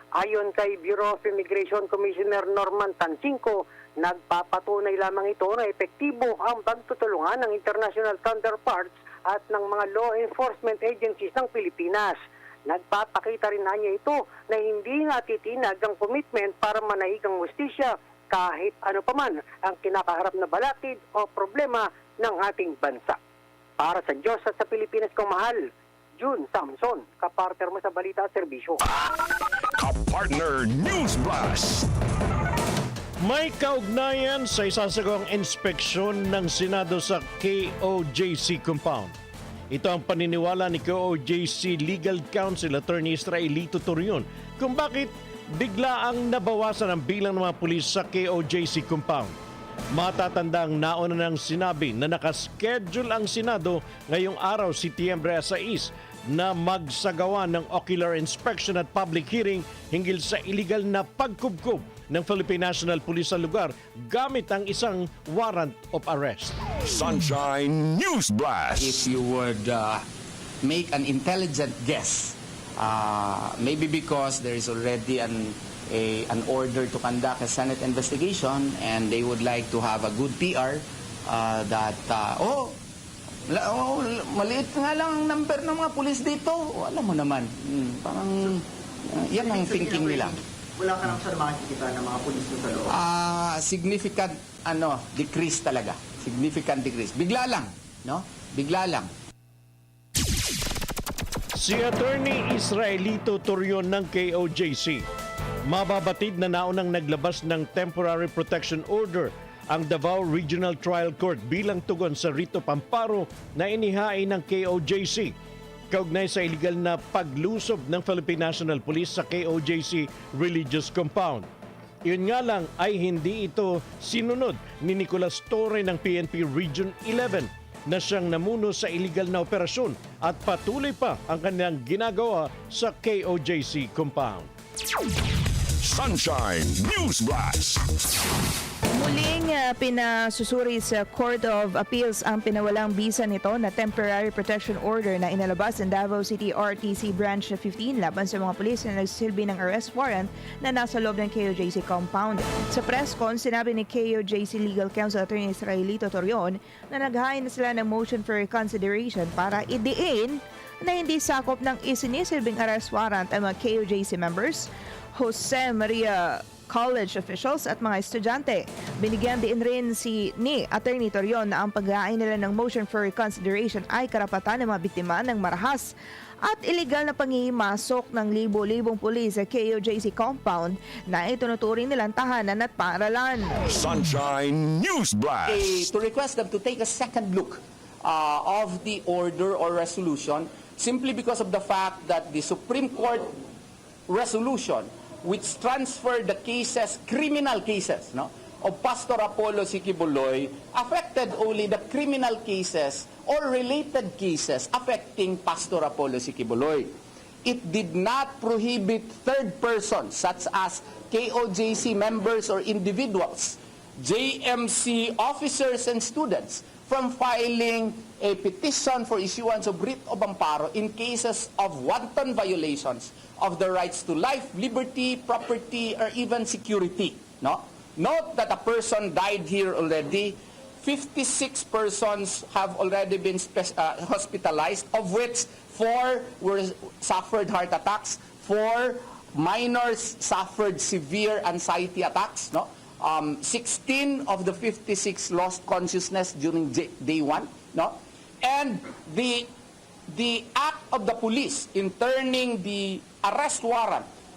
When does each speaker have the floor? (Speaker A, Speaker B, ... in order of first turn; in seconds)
Speaker A: 0.1-23.2, 23.8-28.8
Speaker B: 29.8-31.9, 66.8-69.0, 135.8-137.8, 183.7-185.9
Speaker C: 33.2-39.1, 39.7-49.3, 49.9-66.6, 101.6-105.0, 105.7-115.3, 115.9-121.5, 122.1-134.5
Speaker D: 68.8-70.0, 70.6-82.8, 83.5-90.3, 92.9-99.1, 185.5-193.3, 194.1-249.5, 250.1-254.1
Speaker E: 89.3-93.0
Speaker F: 139.0-175.9, 176.4-183.6